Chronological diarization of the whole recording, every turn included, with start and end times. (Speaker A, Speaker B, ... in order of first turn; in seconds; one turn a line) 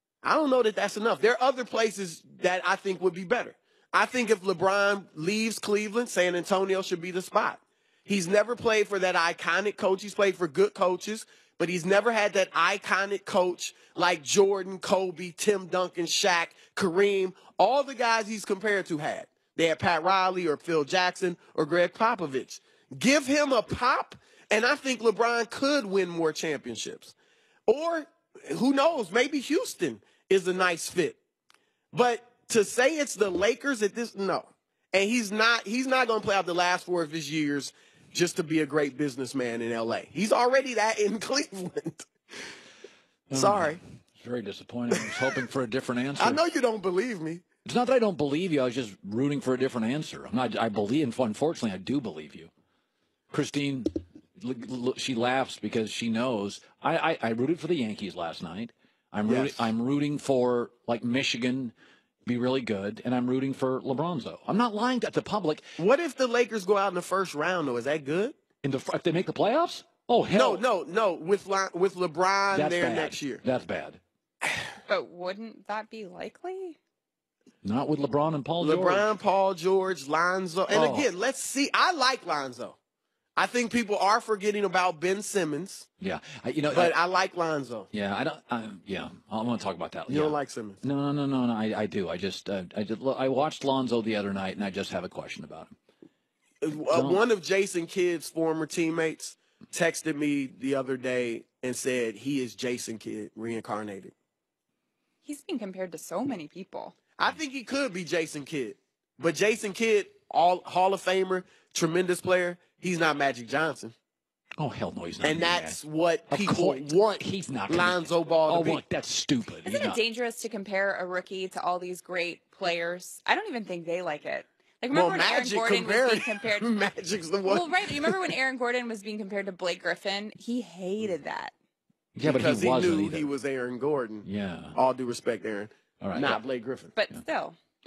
Speaker A: 0.2-27.1
Speaker A: 27.7-31.2
Speaker A: 31.9-42.1
Speaker B: 43.3-46.4
Speaker A: 43.3-43.8
Speaker A: 46.2-47.4
Speaker B: 47.6-52.5
Speaker B: 53.3-61.7
Speaker A: 59.2-59.7
Speaker B: 62.2-65.7
Speaker A: 65.8-68.3
Speaker B: 68.6-70.6
Speaker A: 70.3-73.4
Speaker B: 72.5-74.0
Speaker C: 74.9-76.8
Speaker B: 77.6-79.1
Speaker A: 78.6-82.8
Speaker B: 80.7-81.1
Speaker A: 83.4-85.9
Speaker B: 86.0-86.9
Speaker A: 86.7-87.9
Speaker B: 87.9-95.7
Speaker A: 90.1-90.8
Speaker A: 96.6-104.1
Speaker B: 96.9-97.2
Speaker C: 105.2-107.0
Speaker A: 107.2-113.9
Speaker B: 114.6-120.0
Speaker A: 115.2-118.8
Speaker C: 119.6-126.7
Speaker A: 124.9-128.2
Speaker C: 127.4-131.5
Speaker B: 132.2-133.3
Speaker A: 132.2-136.9
Speaker B: 134.2-134.8
Speaker B: 136.0-136.4
Speaker C: 136.9-137.6